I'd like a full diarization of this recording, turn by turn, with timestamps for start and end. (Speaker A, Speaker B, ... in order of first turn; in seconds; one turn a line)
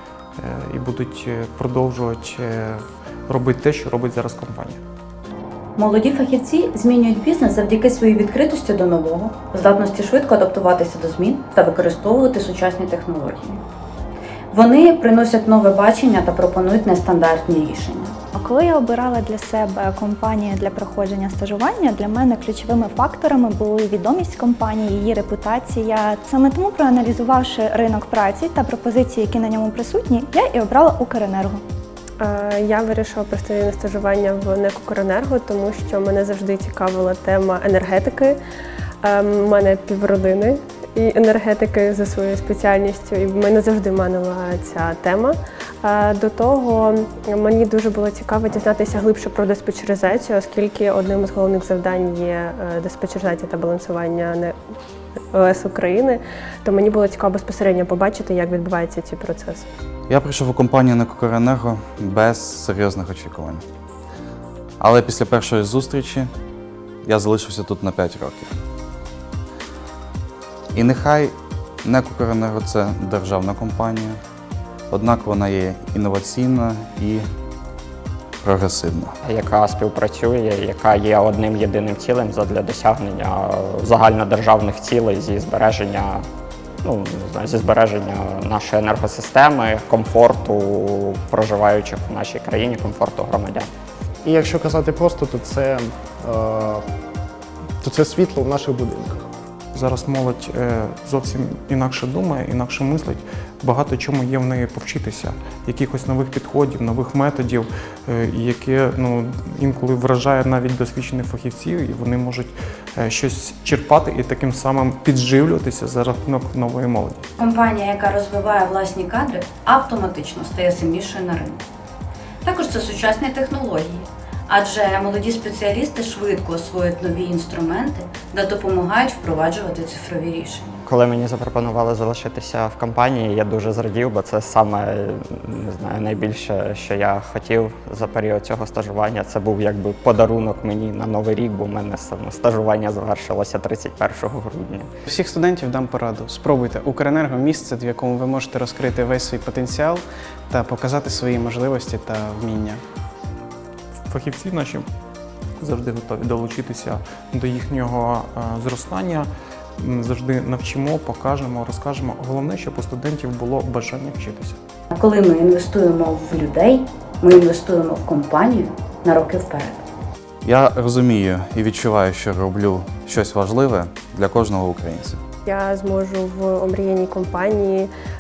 Speaker A: 0.4-4.8
Speaker B: 5.8-13.6
Speaker B: 14.5-18.2
Speaker C: 18.3-31.6
Speaker D: 32.2-38.4
Speaker D: 39.0-54.5
Speaker D: 55.3-59.7
Speaker E: 60.1-63.6
Speaker E: 64.8-66.3
Speaker E: 67.0-68.5
Speaker E: 70.7-74.2
Speaker E: 74.9-77.2
Speaker E: 78.4-79.2
Speaker F: 79.2-86.3
Speaker F: 86.8-93.7
Speaker G: 94.2-96.8
Speaker G: 97.8-99.3
Speaker A: 99.7-117.2
Speaker B: 117.4-121.6
Speaker B: 122.4-130.7
Speaker F: 130.8-144.9
Speaker H: 145.1-152.8
Speaker A: 154.1-154.9
Speaker A: 155.6-164.6
Speaker B: 164.9-169.8
Speaker E: 170.4-175.2
Speaker D: 175.5-177.9